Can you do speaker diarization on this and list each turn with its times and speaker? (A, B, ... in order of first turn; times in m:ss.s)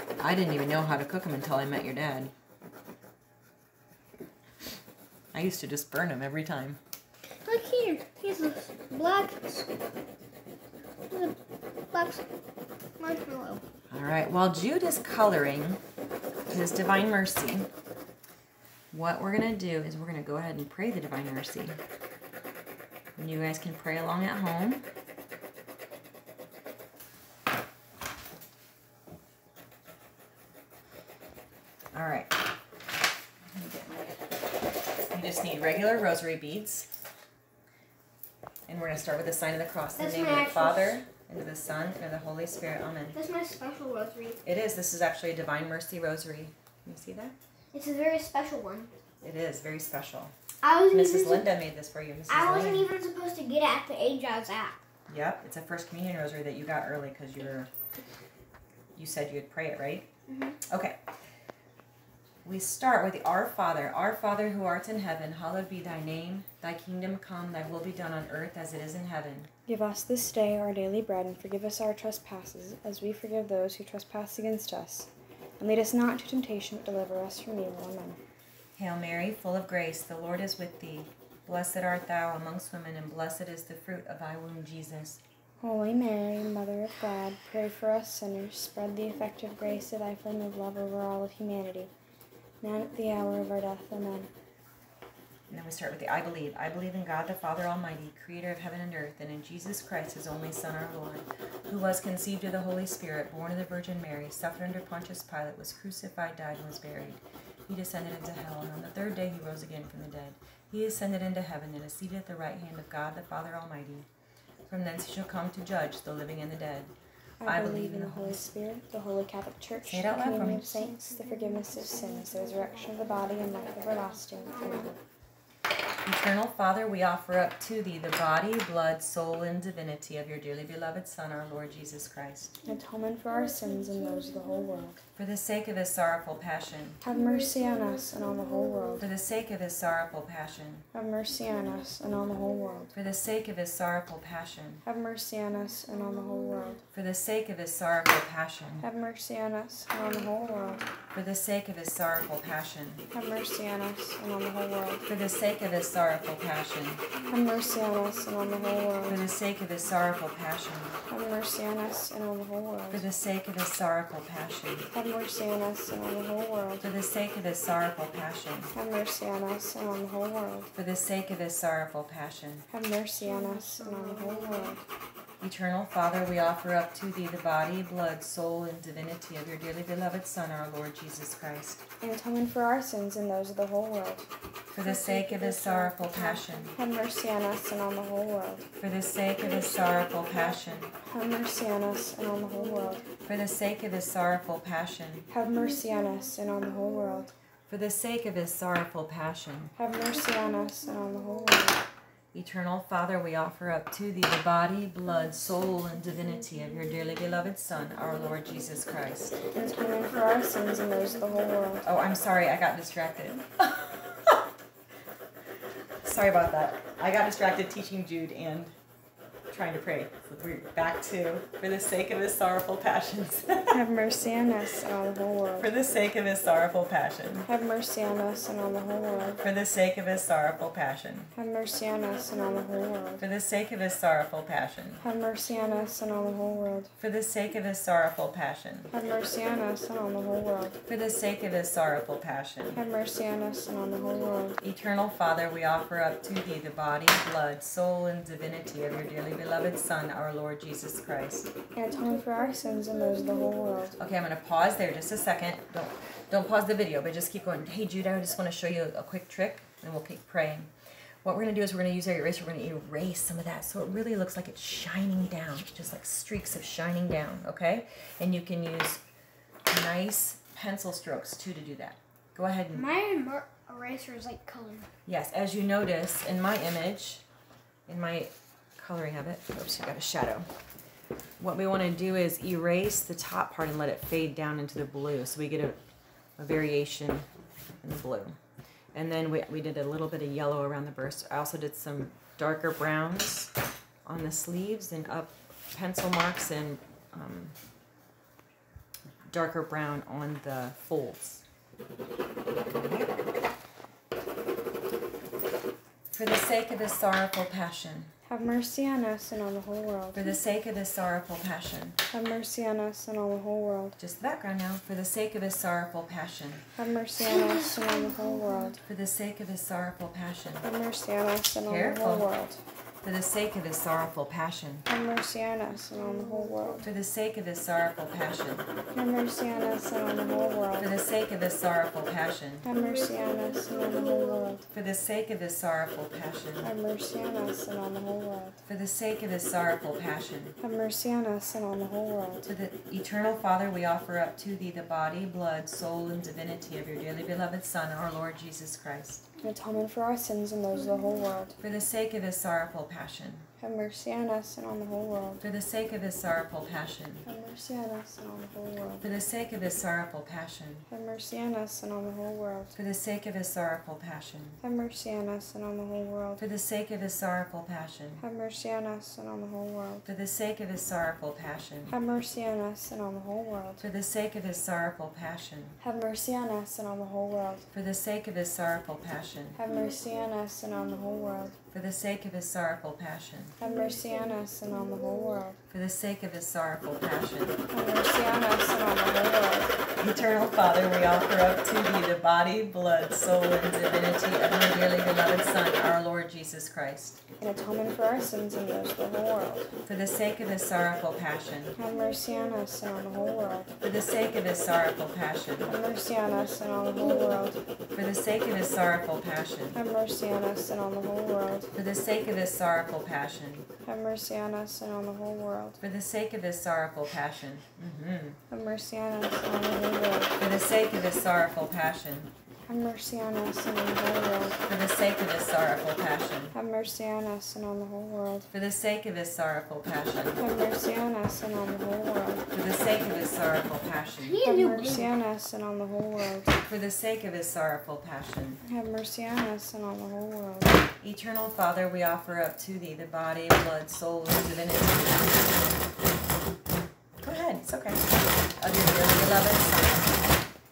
0:00.2-0:02.3 A
0:05.3-0:06.8 A
0:07.4-0:09.7 B
0:11.1-0:11.4 B
0:11.9-0:12.2 B
0:13.0-0:13.6 B
0:13.9-0:15.8 A
0:16.5-0:17.7 A
0:18.9-0:21.8 A
0:23.2-0:24.8 A
0:31.9-0:32.4 A
0:33.5-0:34.2 A
0:35.0-0:36.9 A
0:38.7-0:43.2 A
0:40.0-0:41.0 B
0:43.1-0:44.4 B
0:44.4-0:47.4 A
0:47.7-0:48.9 B
0:49.2-0:50.3 A
0:50.6-0:51.5 B
0:50.9-0:52.9 A
0:52.3-0:54.8 B
0:55.1-0:57.7 A
0:59.0-1:00.1 A
1:00.3-1:00.6 B
1:00.6-1:01.0 A
1:02.4-1:09.5 A
1:09.7-1:18.2 C
1:18.8-1:25.2 A
1:25.6-1:31.9 C
1:32.6-1:34.3 C
1:35.5-1:54.1 A
1:54.7-1:56.9 A
1:57.4-2:04.9 C
1:57.4-1:58.5 A
1:59.9-2:00.7 A
2:04.5-2:04.9 B
2:06.0-2:12.6 A
2:12.6-2:15.0 C
2:15.2-2:17.0 A
2:17.0-2:19.0 C
2:19.0-2:20.9 A
2:20.9-2:22.9 C
2:22.9-2:24.8 A
2:24.8-2:26.8 C
2:26.9-2:28.9 A
2:28.8-2:30.9 C
2:31.1-2:33.0 A
2:33.1-2:35.0 C
2:35.1-2:37.0 A
2:37.3-2:39.2 C
2:39.0-2:41.0 A
2:41.1-2:43.0 C
2:42.9-2:44.9 A
2:44.9-2:46.8 C
2:46.8-2:48.7 A
2:48.7-2:50.7 C
2:50.7-2:52.6 A
2:52.7-2:54.8 C
2:53.2-2:54.8 B
2:55.4-3:01.8 A
3:02.0-3:08.7 C
3:04.7-3:06.8 A
3:08.8-3:10.9 A
3:11.0-3:13.1 C
3:13.2-3:15.3 A
3:15.3-3:17.3 C
3:17.7-3:19.7 A
3:19.8-3:21.8 C
3:22.3-3:29.4 A
3:29.5-3:31.8 C
3:31.8-3:34.4 A
3:36.0-3:38.7 A
3:39.5-3:43.8 A
3:43.7-3:45.7 C
3:45.6-3:47.5 A
3:47.5-3:49.4 C
3:49.4-3:51.3 A
3:51.4-3:53.2 C
3:53.2-3:55.0 A
3:55.0-3:56.9 C
3:57.0-3:58.9 A
3:58.9-4:00.8 C
4:00.9-4:02.8 A
4:02.8-4:04.6 C
4:04.6-4:11.5 A
4:11.8-4:14.0 C
4:14.0-4:20.7 A
4:21.2-4:29.0 A
4:29.7-4:32.9 A
4:32.7-4:34.9 B
4:35.1-4:37.2 A
4:37.9-4:40.5 A
4:41.4-4:45.8 A
4:46.4-4:47.3 A
4:47.8-4:48.4 A
4:48.9-4:53.5 A
4:54.1-4:57.6 A
4:59.3-5:01.4 A
5:02.6-5:03.1 A
5:06.1-5:08.1 A
5:08.3-5:10.4 C
5:10.1-5:12.0 A
5:12.1-5:14.0 C
5:14.0-5:16.6 A
5:16.8-5:18.8 C
5:17.2-5:18.8 B
5:18.8-5:20.7 A
5:20.6-5:22.6 C
5:21.6-5:22.3 A
5:23.0-5:24.8 A
5:24.9-5:26.8 C
5:26.3-5:26.8 B
5:26.8-5:28.7 A
5:28.9-5:30.9 C
5:30.8-5:32.6 A
5:32.6-5:34.6 C
5:32.7-5:34.6 B
5:34.7-5:36.7 A
5:36.6-5:38.6 C
5:38.6-5:40.6 A
5:40.6-5:42.5 C
5:42.4-5:49.3 A
5:49.4-5:51.6 C
5:51.6-5:53.5 A
5:53.6-5:55.4 C
5:55.4-5:57.3 A
5:57.2-5:59.0 C
5:59.0-6:00.9 A
6:00.9-6:02.8 C
6:02.8-6:04.6 A
6:04.6-6:06.4 C
6:06.4-6:08.2 A
6:08.2-6:10.1 C
6:10.0-6:12.0 A
6:11.9-6:13.8 C
6:13.8-6:15.8 A
6:15.8-6:17.7 C
6:17.7-6:19.6 A
6:19.6-6:21.6 C
6:21.7-6:23.6 A
6:23.6-6:25.6 C
6:25.7-6:27.6 A
6:27.7-6:29.8 C
6:30.0-6:37.2 A
6:37.4-6:39.7 C
6:39.9-6:41.8 A
6:41.8-6:43.7 C
6:43.8-6:45.7 A
6:45.6-6:47.6 C
6:47.9-6:49.8 A
6:49.8-6:51.7 C
6:51.7-6:53.7 A
6:53.8-6:55.8 C
6:55.8-6:58.4 A
6:58.5-7:00.4 C
7:00.4-7:02.3 A
7:02.7-7:04.6 C
7:04.6-7:06.6 A
7:06.5-7:08.5 C
7:08.5-7:10.4 A
7:10.4-7:12.5 C
7:12.5-7:14.4 A
7:14.2-7:15.1 B
7:14.4-7:16.6 C
7:16.6-7:18.6 A
7:18.6-7:20.8 C
7:21.0-7:25.7 A
7:27.2-7:30.3 A